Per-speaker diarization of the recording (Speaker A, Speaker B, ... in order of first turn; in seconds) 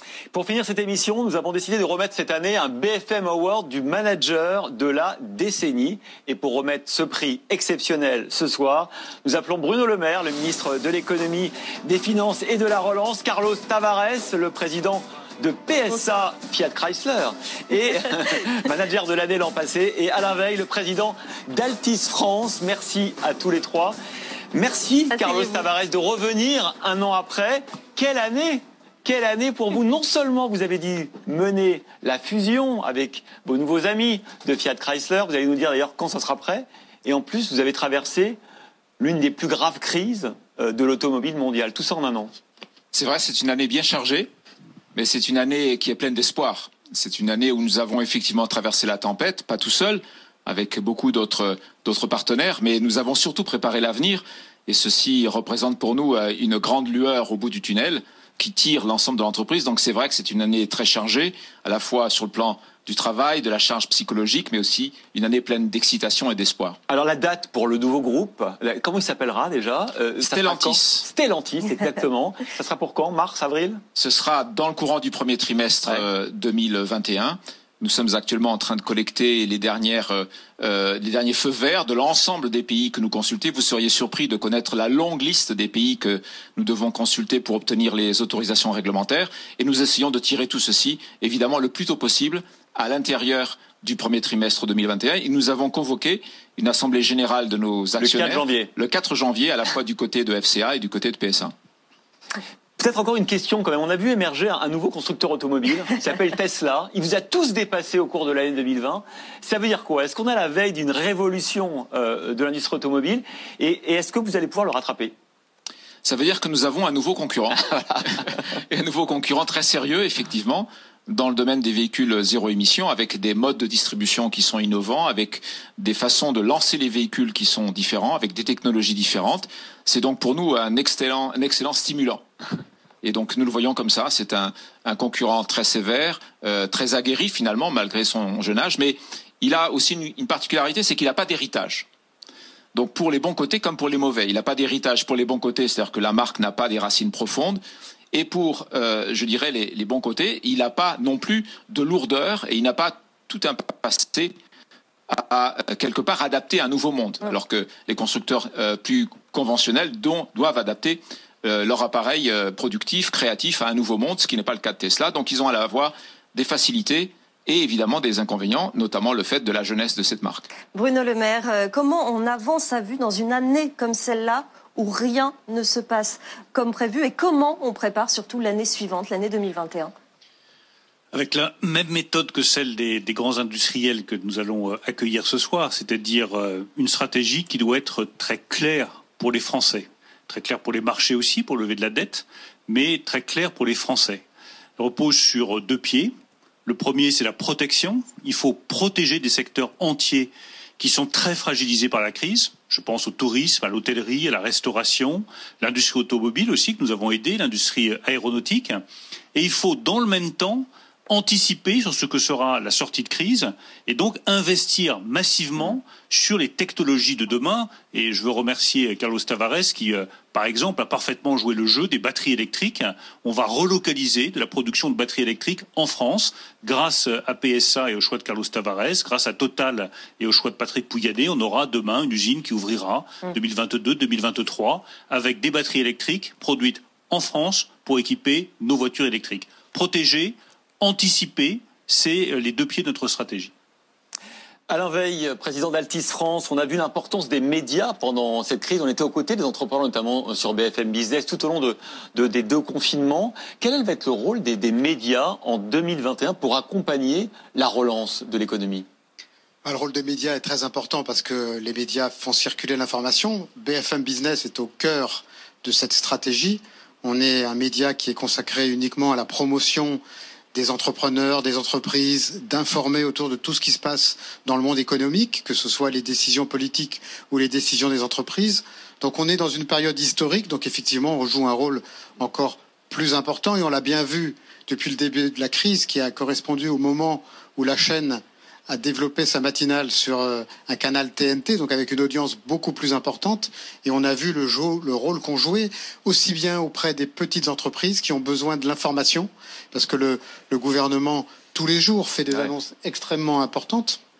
Speaker A: 0.3-23.9, 24.5-38.4, 39.0-42.3, 66.9-73.8, 98.0-98.7, 102.8-115.1, 244.7-258.9
Speaker B: 25.1-25.6, 170.7-179.9
Speaker C: 42.9-44.3, 44.9-66.8, 70.2-71.0, 74.0-101.5, 116.0-117.7, 118.7-132.2, 133.0-141.8, 142.7-147.6, 148.1-154.3, 155.1-170.4
Speaker D: 181.1-194.2, 194.8-196.1, 196.7-208.8, 209.3-243.5
Speaker E: 259.6-270.0, 270.5-304.0